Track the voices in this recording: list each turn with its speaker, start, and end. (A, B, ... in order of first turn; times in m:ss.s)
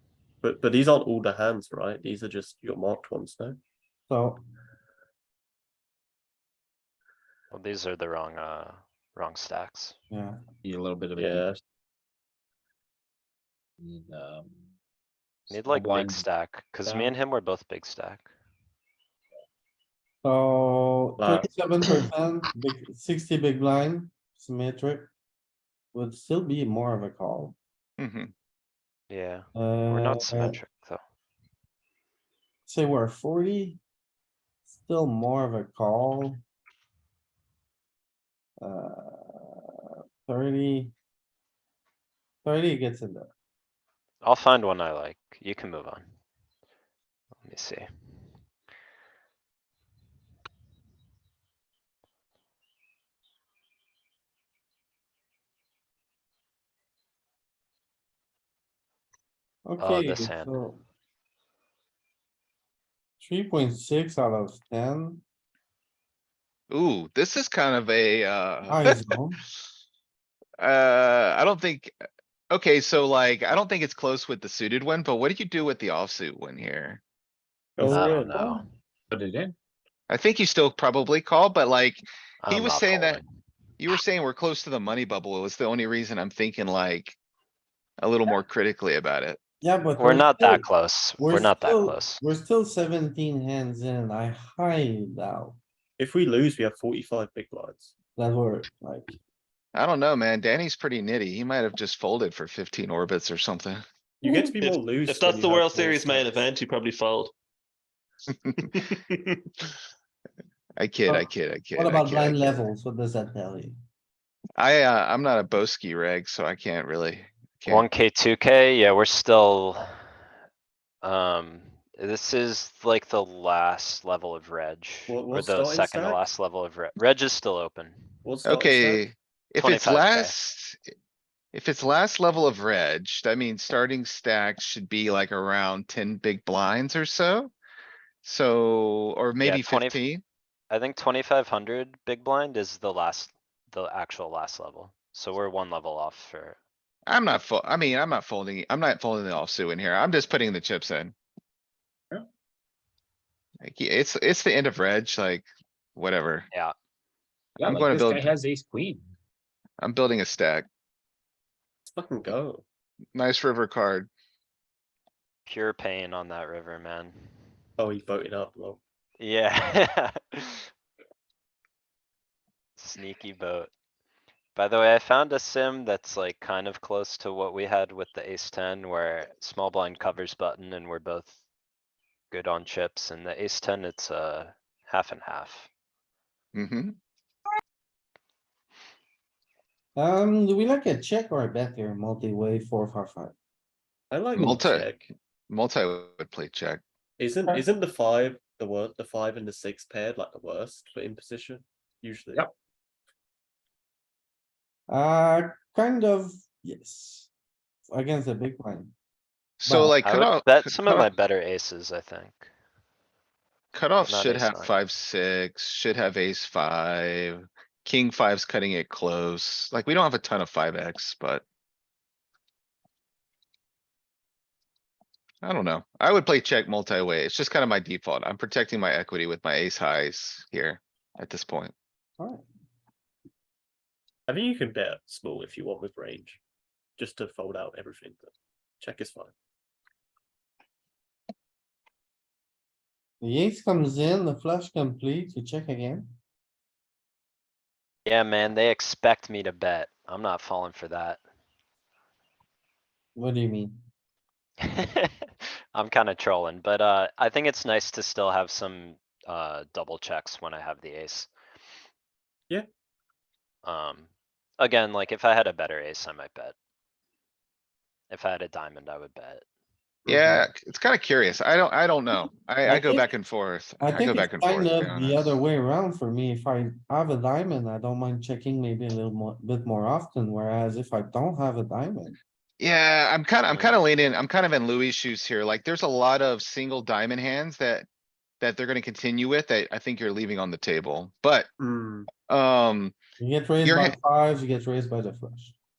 0:00.4-0:03.6 A
0:04.1-0:04.4 B
0:07.5-0:10.0 C
0:10.1-0:10.4 B
0:10.6-0:11.5 D
0:10.7-0:11.3 E
0:11.1-0:11.6 A
0:13.8-0:14.5 D
0:15.5-0:18.3 C
0:15.5-0:16.0 E
0:15.9-0:16.2 D
0:20.2-0:25.1 B
0:21.2-0:21.5 A
0:25.9-0:27.6 B
0:28.0-0:28.3 F
0:29.1-0:31.0 C
0:29.5-0:30.6 B
0:32.7-0:33.8 B
0:34.7-0:36.4 B
0:38.6-0:40.9 B
0:42.4-0:43.3 B
0:44.2-0:46.1 C
0:47.4-0:47.9 C
0:59.6-1:00.8 B
0:59.8-1:00.5 C
1:03.2-1:05.2 B
1:06.7-1:09.1 F
1:08.7-1:09.4 B
1:10.6-1:11.9 F
1:12.5-1:17.0 F
1:17.8-1:18.5 A
1:17.8-1:18.6 B
1:17.8-1:18.6 C
1:19.1-1:19.5 D
1:20.1-1:23.2 F
1:22.4-1:23.2 C
1:23.8-1:27.2 F
1:28.0-1:29.4 F
1:29.6-1:30.7 B
1:30.0-1:32.2 C
1:31.2-1:35.6 B
1:36.0-1:37.9 A
1:38.2-1:39.2 B
1:39.7-1:43.8 F
1:44.2-1:46.3 A
1:44.2-1:44.8 B
1:45.0-1:47.3 E
1:50.8-1:52.6 F
1:51.0-1:53.8 B
1:54.6-1:57.9 F
1:57.7-1:59.8 C
2:01.0-2:08.0 C
2:05.1-2:06.2 A
2:08.2-2:09.1 A
2:08.4-2:10.8 F
2:09.6-2:10.3 C
2:11.5-2:17.5 F
2:18.2-2:20.2 F
2:19.4-2:20.0 C
2:20.7-2:26.6 C
2:27.1-2:31.1 F
2:33.6-2:36.5 F
2:37.6-2:39.0 E
2:37.6-2:38.3 F
2:37.6-2:38.9 D
2:39.8-2:40.7 F
2:41.9-2:42.6 A
2:43.1-2:44.1 F
2:45.4-2:47.3 C
2:47.8-2:48.8 A
2:49.2-2:50.6 C
2:52.8-2:53.7 C
2:54.5-3:01.4 C
3:02.3-3:05.7 C
3:06.5-3:07.0 F
3:10.0-3:13.3 B
3:14.1-3:15.1 A
3:14.3-3:14.9 F
3:15.5-3:16.8 F
3:17.2-3:22.5 A
3:24.9-3:27.3 B
3:27.9-3:28.9 B
3:29.6-3:31.1 F
3:29.6-3:30.0 B
3:30.0-3:32.4 C
3:33.7-3:41.4 F
3:34.0-3:34.7 C
3:45.4-3:51.7 F
3:52.2-3:52.4 B
3:54.3-3:56.4 A
3:57.0-3:59.3 A
4:03.2-4:06.1 B
4:08.0-4:11.2 C
4:13.2-4:13.8 B
4:14.6-4:21.3 C
4:23.6-4:26.5 C
4:28.1-4:29.4 C
4:30.1-4:30.4 A
4:30.1-4:35.4 F
4:32.6-4:33.0 B
4:33.8-4:42.2 B
4:42.6-4:47.9 F
4:43.5-4:43.8 C
4:48.4-4:51.5 F
4:51.6-4:52.1 A
4:52.3-4:53.0 F
4:53.2-4:55.5 B
4:53.6-4:54.0 F